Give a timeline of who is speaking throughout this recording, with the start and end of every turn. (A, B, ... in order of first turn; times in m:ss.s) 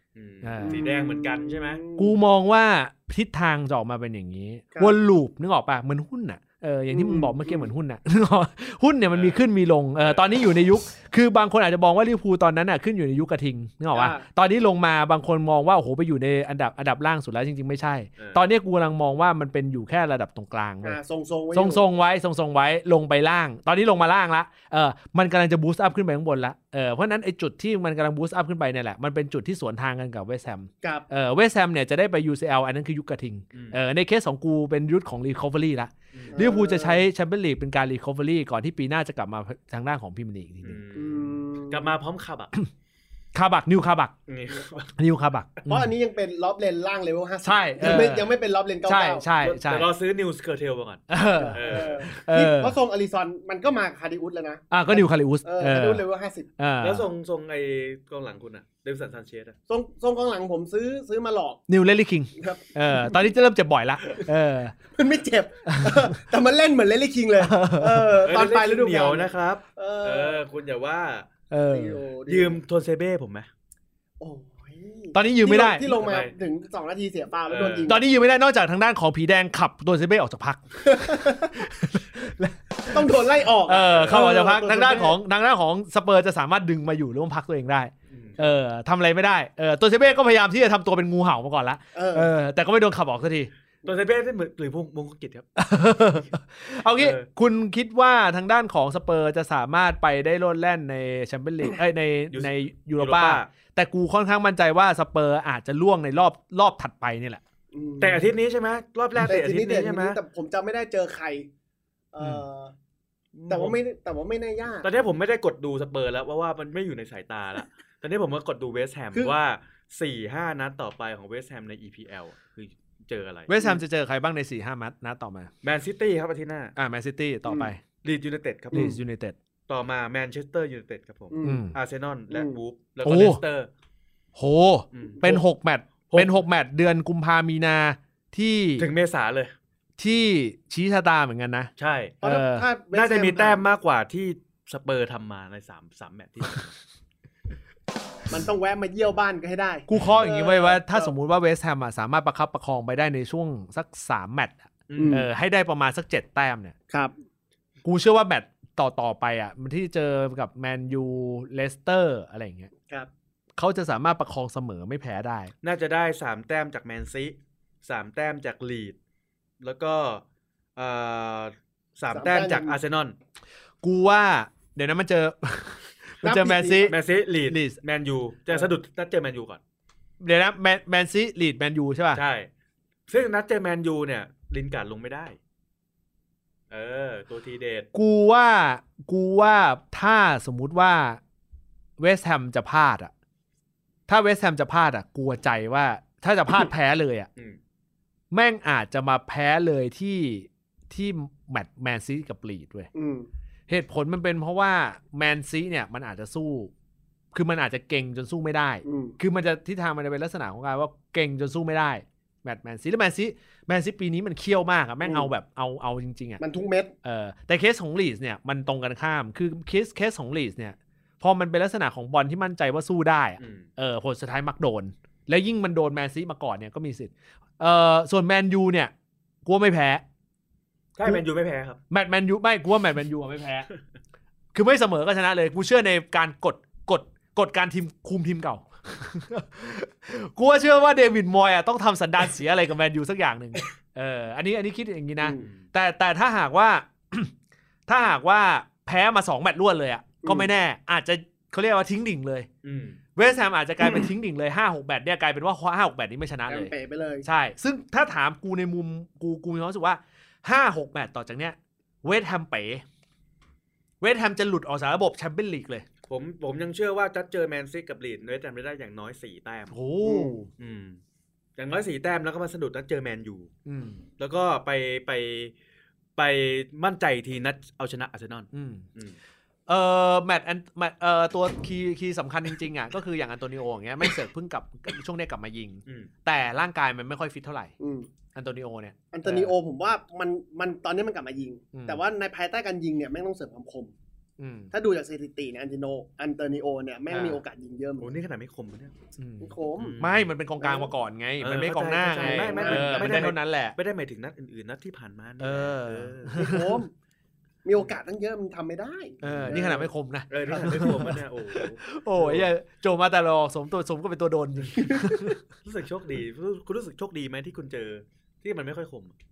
0:00.2-0:01.8 A
0:00.4-0:00.8 B
0:00.6-0:02.1 C
0:02.0-0:21.0 B
0:06.9-0:07.7 C
0:09.1-0:09.4 A
0:13.9-0:14.2 C
0:20.8-0:21.8 C
0:21.5-0:40.8 B
0:36.1-0:36.4 A
0:36.3-0:37.0 C
0:40.6-0:42.5 A
0:40.9-0:41.9 C
0:43.4-0:44.1 B
0:44.3-0:44.9 A
0:45.0-0:45.9 B
0:45.7-0:49.2 C
0:47.4-0:49.9 B
0:49.4-0:52.1 A
0:51.1-0:52.8 B
0:51.4-0:56.5 C
0:54.7-0:56.0 B
0:56.6-0:57.1 B
0:56.8-0:59.6 A
0:59.7-1:01.6 C
1:01.7-1:04.7 B
1:02.4-1:03.2 C
1:04.9-1:10.4 C
1:05.7-1:06.2 B
1:07.4-1:08.2 B
1:08.2-1:11.3 A
1:11.5-1:12.0 B
1:11.7-1:12.6 C
1:12.3-1:13.5 A
1:14.2-1:18.0 C
1:15.1-1:15.9 B
1:15.9-1:16.3 A
1:17.5-1:18.0 A
1:17.9-1:33.5 B
1:20.8-1:21.6 C
1:22.9-1:25.2 C
1:23.9-1:24.2 A
1:28.1-1:28.4 A
1:32.0-1:32.3 C
1:33.8-1:35.5 A
1:35.6-1:47.4 B
1:37.0-1:37.3 A
1:42.3-1:43.5 A
1:47.7-1:48.3 C
1:48.0-1:50.2 A
1:49.3-1:51.5 C
1:52.1-1:52.7 C
1:53.4-1:53.8 A
1:53.5-1:54.9 C
1:54.8-2:03.5 A
2:03.5-2:05.5 B
2:05.6-2:06.7 A
2:06.8-2:07.8 B
2:08.0-2:09.0 A
2:08.7-2:09.0 C
2:08.7-2:09.4 B
2:09.7-2:13.7 A
2:11.3-2:11.7 C
2:11.4-2:11.8 B
2:12.3-2:12.6 C
2:13.0-2:13.4 B
2:14.4-2:18.9 B
2:14.9-2:15.4 A
2:16.1-2:16.3 A
2:18.8-2:19.5 A
2:20.0-2:21.7 B
2:21.8-2:22.2 A
2:22.2-2:23.6 C
2:22.2-2:22.7 B
2:22.9-2:26.7 A
2:28.3-2:31.1 C
2:29.9-2:36.8 B
2:34.9-2:35.2 A
2:35.0-2:35.3 C
2:37.8-2:42.7 B
2:43.6-2:45.5 B
2:45.6-2:49.0 A
2:49.6-2:50.2 A
2:50.8-2:53.2 A
2:52.1-2:52.8 C
2:53.8-2:57.0 B
2:56.2-2:56.9 C
2:56.9-2:59.6 A
2:57.5-2:57.8 B
3:00.2-3:02.2 B
3:02.1-3:02.5 A
3:03.1-3:05.4 A
3:06.7-3:07.9 A
3:07.9-3:11.2 B
3:12.0-3:13.1 B
3:14.1-3:17.3 B
3:18.3-3:22.9 B
3:23.0-3:23.3 C
3:23.7-3:26.7 B
3:27.3-3:36.4 B
3:28.8-3:29.2 C
3:35.0-3:35.3 C
3:36.4-3:36.9 C
3:37.0-3:48.9 B
3:43.4-3:43.7 A
3:49.4-3:50.0 B
3:51.0-3:51.8 A
3:51.9-3:53.7 B
3:54.5-4:07.3 B
4:07.9-4:12.5 B
4:10.2-4:10.5 C
4:12.6-4:13.0 A
4:13.2-4:16.7 B
4:13.8-4:14.1 C
4:16.5-4:17.3 C
4:17.2-4:22.8 B
4:24.0-4:25.8 B
4:26.1-4:29.8 A
4:29.7-4:30.5 B
4:30.0-4:30.4 C
4:30.6-4:31.0 A
4:31.6-4:33.5 A
4:33.7-4:34.0 B
4:34.2-4:35.5 A
4:36.2-4:39.2 A
4:38.5-4:38.8 B
4:39.7-4:47.7 B
4:45.9-4:46.1 A
4:47.8-4:48.1 C
4:48.4-4:49.5 B
4:49.1-4:53.9 C
4:51.7-4:52.0 B
4:54.4-4:54.7 B
4:54.7-4:58.1 C
4:58.0-4:58.9 A
4:59.2-5:03.8 B
4:59.4-5:00.0 C
4:59.8-5:00.2 A
5:00.6-5:00.9 C
5:01.4-5:06.5 A
5:02.2-5:03.3 C
5:05.4-5:06.8 B
5:06.4-5:06.9 C
5:07.6-5:09.9 C
5:09.2-5:15.4 B
5:10.3-5:12.5 A
5:10.6-5:10.9 C
5:14.7-5:15.4 C
5:15.6-5:19.1 A